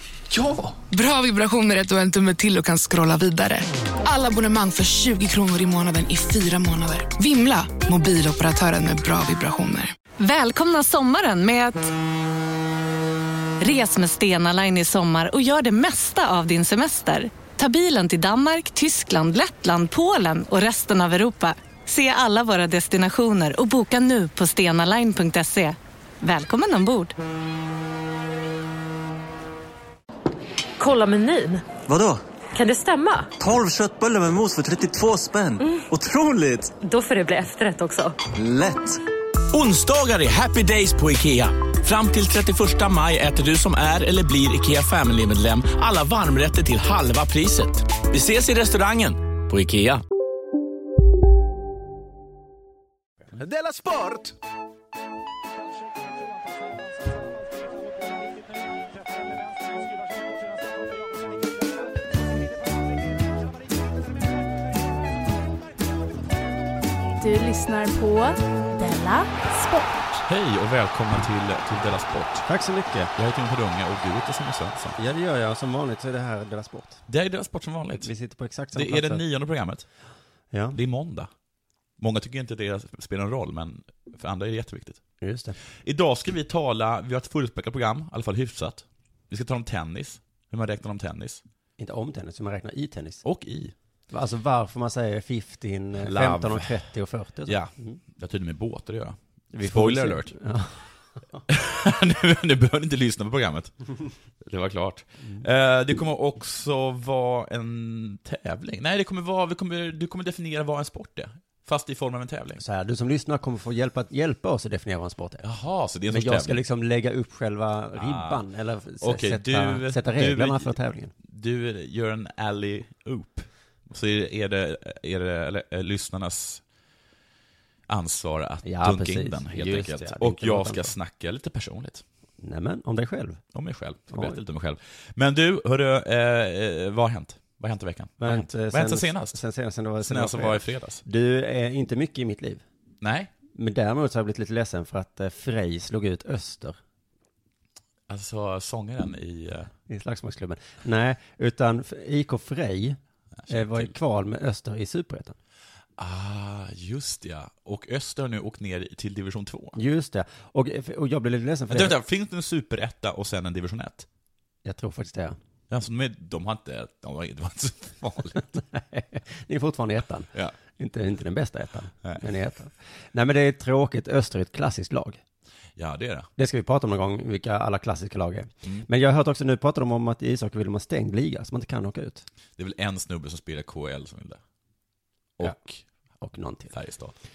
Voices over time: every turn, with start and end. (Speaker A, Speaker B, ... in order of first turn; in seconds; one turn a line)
Speaker A: 0.9-9.9
Speaker B: 10.2-11.9
Speaker B: 13.6-27.1
Speaker C: 30.8-31.6
Speaker D: 31.9-32.2
Speaker C: 32.6-33.3
Speaker D: 33.4-36.8
Speaker C: 37.0-38.1
Speaker D: 38.3-39.0
Speaker E: 39.5-50.0
Speaker F: 67.2-70.2
Speaker G: 70.3-72.5
Speaker H: 72.5-73.1
Speaker G: 73.2-75.0
Speaker H: 75.0-77.0
Speaker G: 77.1-78.1
Speaker H: 78.0-79.2
Speaker G: 78.7-79.8
Speaker H: 80.5-80.8
Speaker G: 80.7-81.3
Speaker G: 82.0-85.0
Speaker H: 85.2-85.6
Speaker G: 85.8-91.4
Speaker H: 91.8-93.2
Speaker G: 93.2-93.7
Speaker H: 94.1-98.0
Speaker G: 96.0-96.8
Speaker G: 97.5-100.3
Speaker H: 99.5-100.8
Speaker G: 101.5-103.7
Speaker G: 104.4-112.6
Speaker H: 112.6-115.5
Speaker G: 115.4-116.6
Speaker H: 116.1-121.1
Speaker G: 118.0-118.4
Speaker G: 119.0-120.7
Speaker G: 121.2-126.6
Speaker G: 127.9-132.0
Speaker H: 128.6-130.9
Speaker H: 132.4-133.4
Speaker G: 133.5-139.4
Speaker H: 134.1-134.4
Speaker H: 138.2-142.6
Speaker G: 140.0-141.0
Speaker G: 143.0-143.3
Speaker H: 143.5-146.8
Speaker G: 148.1-149.7
Speaker H: 149.9-155.4
Speaker G: 153.4-153.9
Speaker G: 156.0-159.8
Speaker H: 159.8-162.0
Speaker G: 161.7-164.1
Speaker H: 164.7-165.4
Speaker G: 165.7-168.6
Speaker H: 168.7-175.2
Speaker G: 175.8-176.3
Speaker H: 176.4-182.3
Speaker G: 182.6-184.4
Speaker G: 185.4-185.8
Speaker H: 186.2-186.7
Speaker G: 186.7-187.1